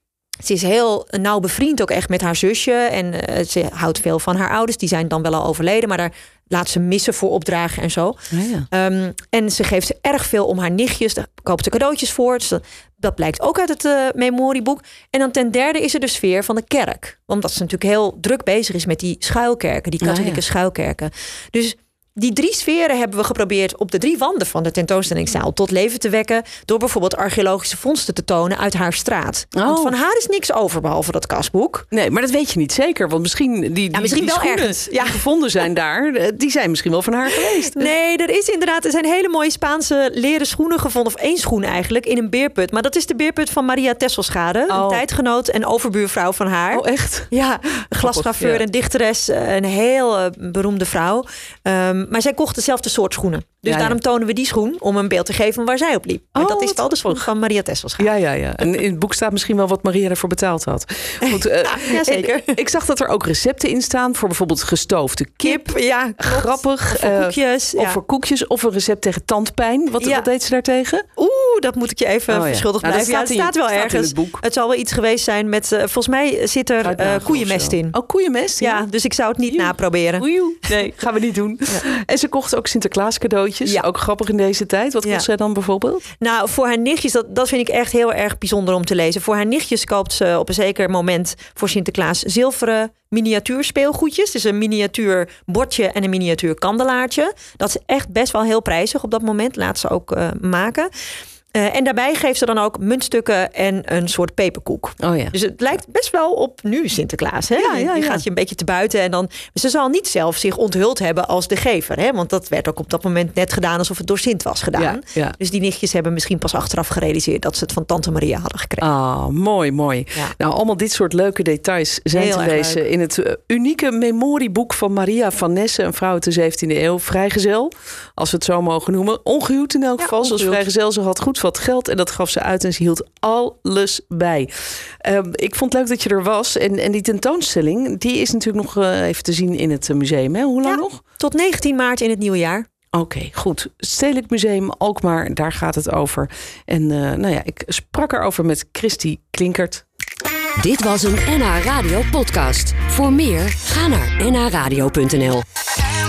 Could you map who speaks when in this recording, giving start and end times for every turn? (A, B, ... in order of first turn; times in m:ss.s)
0:00.4-0:31.9 A
0:08.3-0:08.6 B
0:20.0-0:20.4 B
0:29.5-0:29.9 B
0:31.9-0:37.9 B
0:33.9-0:35.2 A
0:37.4-0:58.1 A
0:44.7-0:45.0 B
0:46.7-0:47.3 B
0:47.9-0:48.6 B
0:53.6-0:54.0 B
0:56.3-0:57.2 B
0:58.0-1:11.0 B
1:01.2-1:02.6 A
1:05.4-1:08.0 A
1:10.0-1:10.3 A
1:11.2-1:17.9 A
1:12.3-1:14.4 B
1:16.8-1:18.8 B
1:18.6-1:20.7 A
1:19.5-1:26.0 B
1:26.2-1:40.9 A
1:41.5-1:58.9 A
1:45.0-1:45.3 B
1:47.6-1:48.2 B
1:54.8-1:55.4 B
1:58.8-2:14.5 B
2:02.1-2:02.8 A
2:10.0-2:10.6 A
2:15.0-2:21.0 B
2:20.6-2:22.7 A
2:22.9-2:29.8 B
2:30.6-2:35.4 C